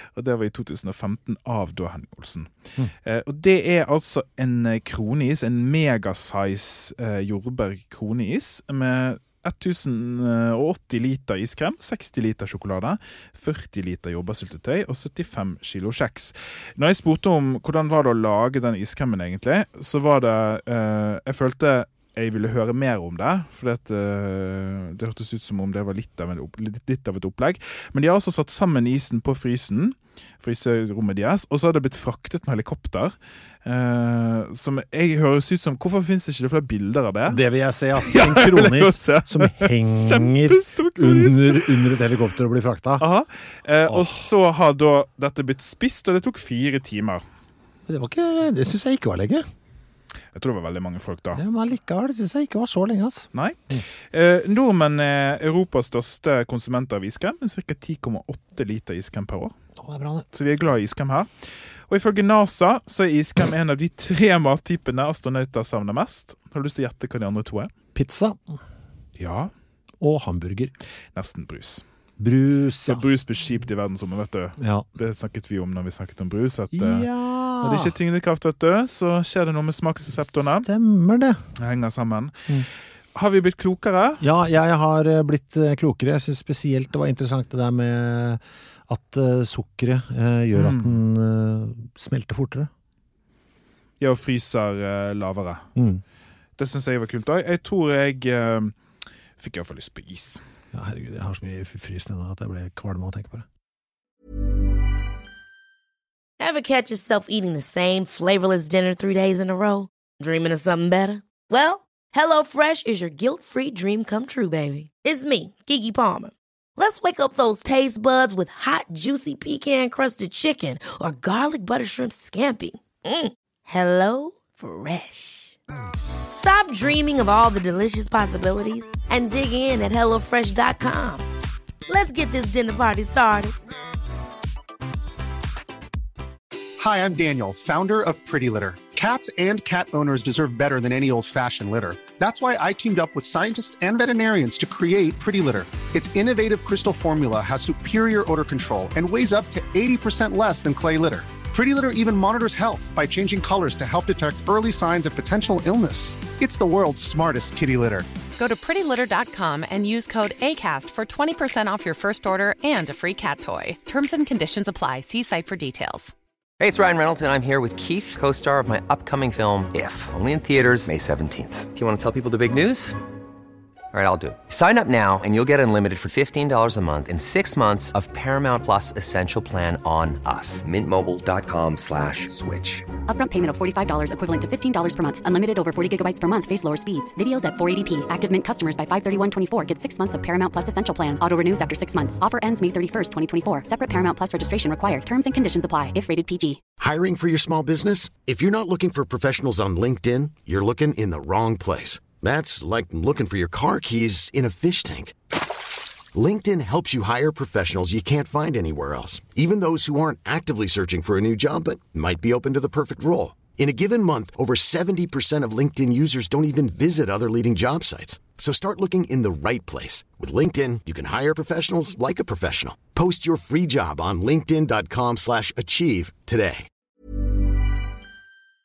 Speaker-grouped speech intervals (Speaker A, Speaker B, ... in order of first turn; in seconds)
Speaker A: 0.1-2.5, 3.0-37.4, 38.0-41.7, 43.0-47.2, 50.3-51.4, 54.1-59.5, 60.3-61.3, 61.9-67.7, 69.2-69.5, 71.2-71.8, 72.9-77.1, 77.6-80.7, 81.6-82.5, 83.2-84.2, 90.5-91.0, 94.0-95.7, 96.6-98.8, 99.4-100.4
Speaker B: 37.3-43.0, 43.9-44.2, 47.9-49.5, 51.4-53.8, 59.8-60.3, 67.9-68.4, 70.0-70.7, 72.2-73.0, 74.6-74.9, 76.7-77.9, 80.4-81.4, 84.2-92.7, 95.8-96.0, 100.7-103.5
Speaker C: 106.4-125.6, 126.3-131.3, 131.9-133.6
Speaker D: 136.8-158.1
Speaker E: 158.4-166.1
Speaker F: 166.6-173.0, 173.9-182.9
Speaker G: 183.1-196.6
Speaker H: 196.8-205.1, 206.1-226.7